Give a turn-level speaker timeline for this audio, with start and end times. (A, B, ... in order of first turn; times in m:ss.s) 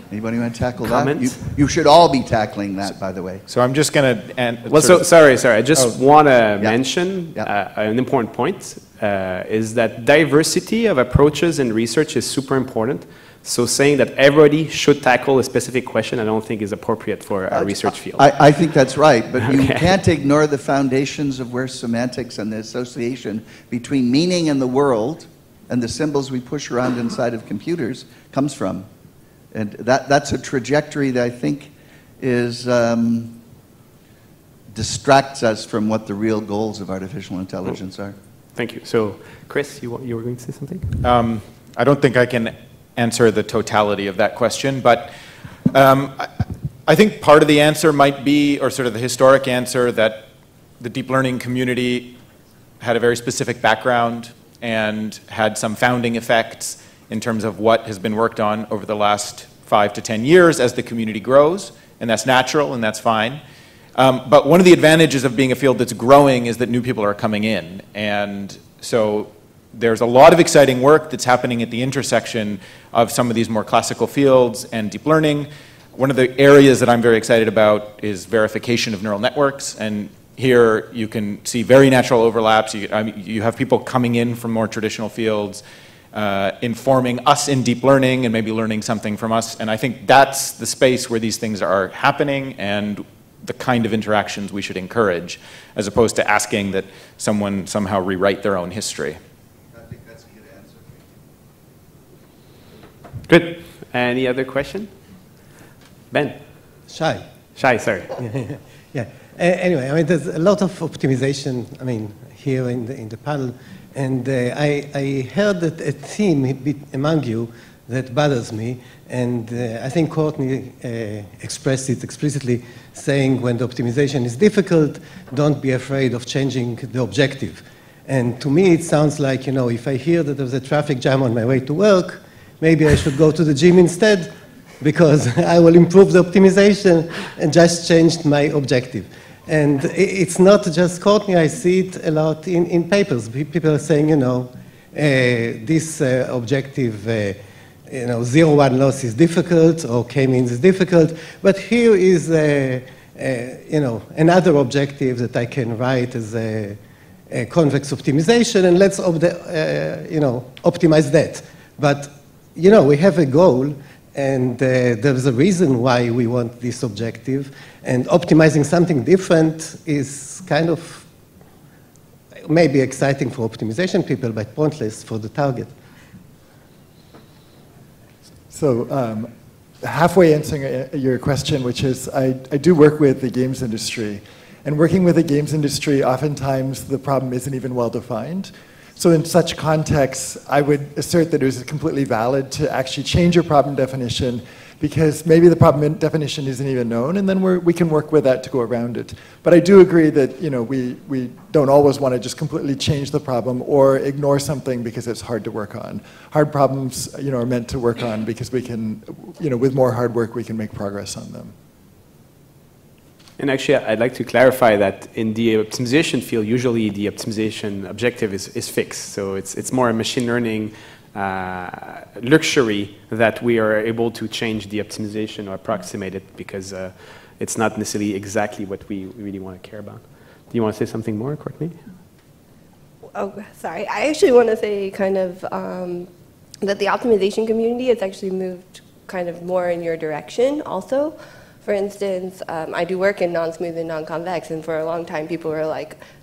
0:00.1-0:03.4 A
0:00.8-0:01.4 B
0:03.5-0:05.1 C
0:04.7-0:18.4 B
0:06.6-0:07.5 A
0:17.5-0:28.9 A
0:19.4-0:19.9 B
0:29.5-0:33.4 A
0:34.7-0:38.2 A
0:38.6-0:41.0 B
0:41.0-0:45.1 C
0:45.7-0:46.3 C
0:46.9-0:50.3 C
0:50.8-0:52.2 C
0:52.8-1:03.4 C
1:04.0-1:25.6 C
1:26.1-1:39.2 C
1:39.9-1:40.8 A
1:43.3-1:44.9 B
1:46.1-1:46.4 B
1:46.9-1:47.3 D
1:47.6-1:48.1 B
1:48.2-2:51.1 D
2:52.5-2:55.7 D
2:58.5-3:31.5 E
3:33.4-3:51.8 B
3:53.2-3:56.1 F
3:56.6-4:06.0 F